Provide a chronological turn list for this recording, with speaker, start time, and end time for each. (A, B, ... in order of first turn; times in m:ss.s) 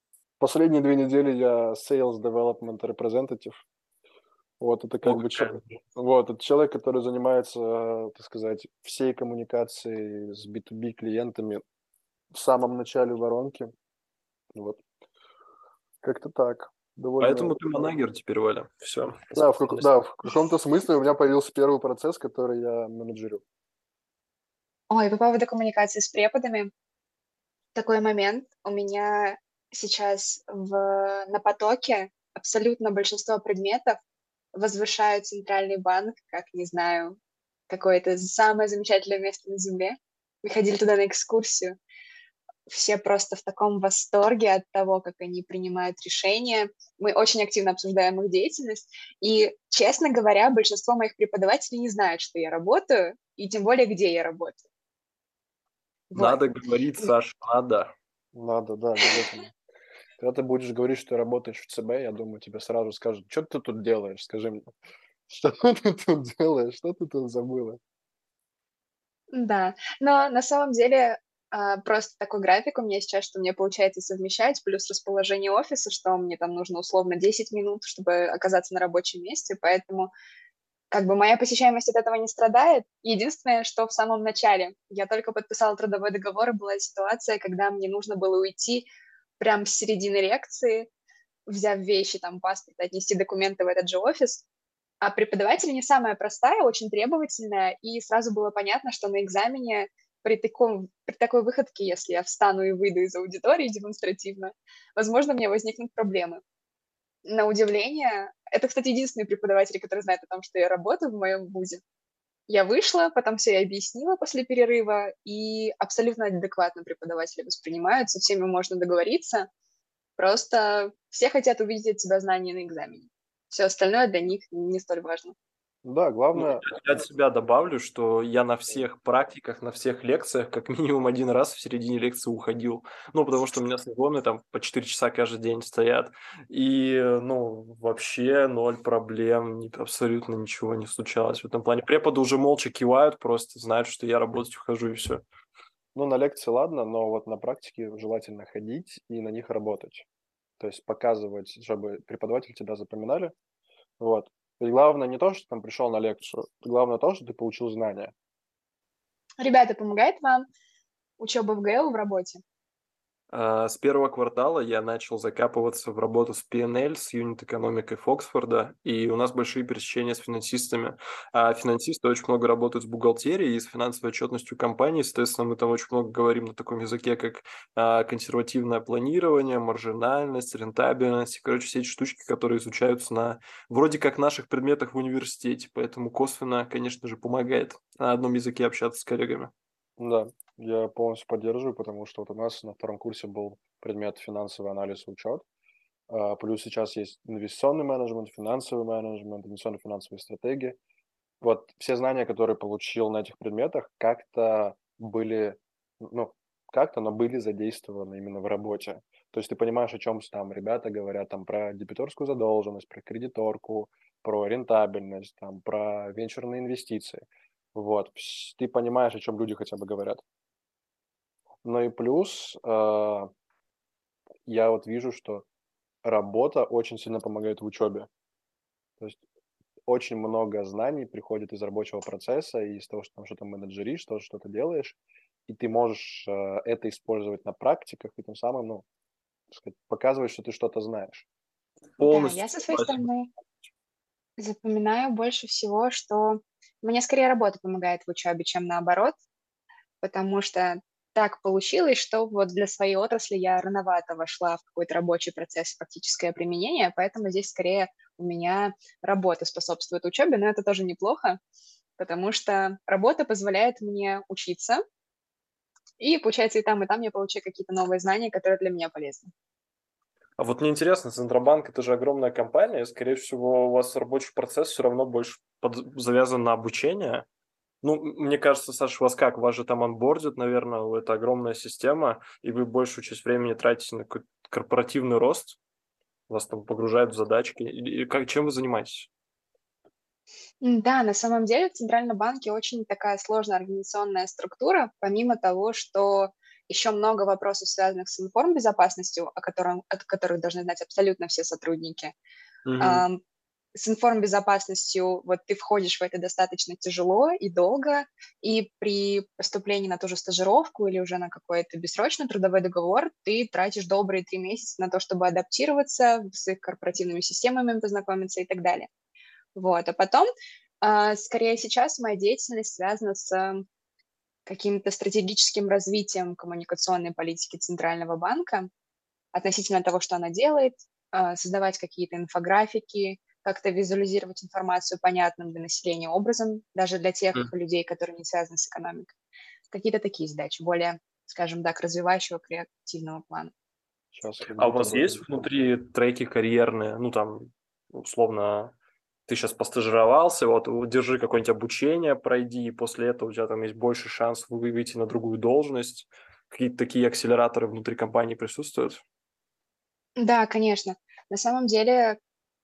0:00.4-0:03.6 A
0:04.6-0:11.6 A
0:05.0-0:05.8 B
0:12.3-0:13.7 A
0:14.5-0:14.8 A
0:16.0-0:17.6 A
0:17.2-0:19.9 B
0:19.3-0:23.4 A
0:24.9-0:26.7 C
0:27.8-0:34.0 C
0:34.6-0:37.2 C
0:37.7-0:41.8 C
0:42.7-0:54.6 C
0:56.1-0:56.4 C
0:56.2-0:57.9 B
0:58.4-0:59.5 A
1:00.2-1:04.7 A
1:05.3-1:07.8 A
1:09.3-1:20.1 C
1:20.9-1:28.9 C
1:29.4-1:30.9 C
1:31.5-1:34.4 C
1:35.0-1:46.4 C
1:47.2-1:51.8 C
1:52.5-1:59.5 C
2:00.2-2:05.4 C
2:05.8-2:06.7 A
2:06.3-2:25.2 B
2:26.0-2:30.1 A
2:30.6-2:33.3 A
2:34.0-2:38.1 A
2:39.4-2:40.5 C
2:41.2-2:42.4 C
2:43.3-3:09.5 B
3:10.0-3:15.4 A
3:16.1-3:20.8 A
3:21.4-3:40.2 A
3:41.6-3:43.3 A
3:44.5-3:45.5 A
3:46.0-3:48.1 A
3:49.9-3:58.8 A
3:59.5-4:01.3 A
4:02.0-4:03.1 B
4:02.0-4:03.3 C
4:04.4-4:09.1 C
4:10.0-4:21.4 C
4:22.0-4:24.8 C
4:26.0-4:29.3 C
4:30.4-4:37.3 B
4:37.8-4:45.6 B
4:46.3-4:49.1 B
4:50.6-5:02.2 C
5:02.6-5:03.0 B
5:02.8-5:03.2 C
5:03.8-5:18.9 C
5:19.6-5:20.3 C
5:20.8-5:23.6 C
5:24.5-5:28.7 C
5:29.3-5:39.1 C
5:39.7-5:43.5 C
5:44.1-5:45.4 A
5:44.6-5:48.7 B
5:49.3-5:59.0 B
6:00.2-6:02.2 C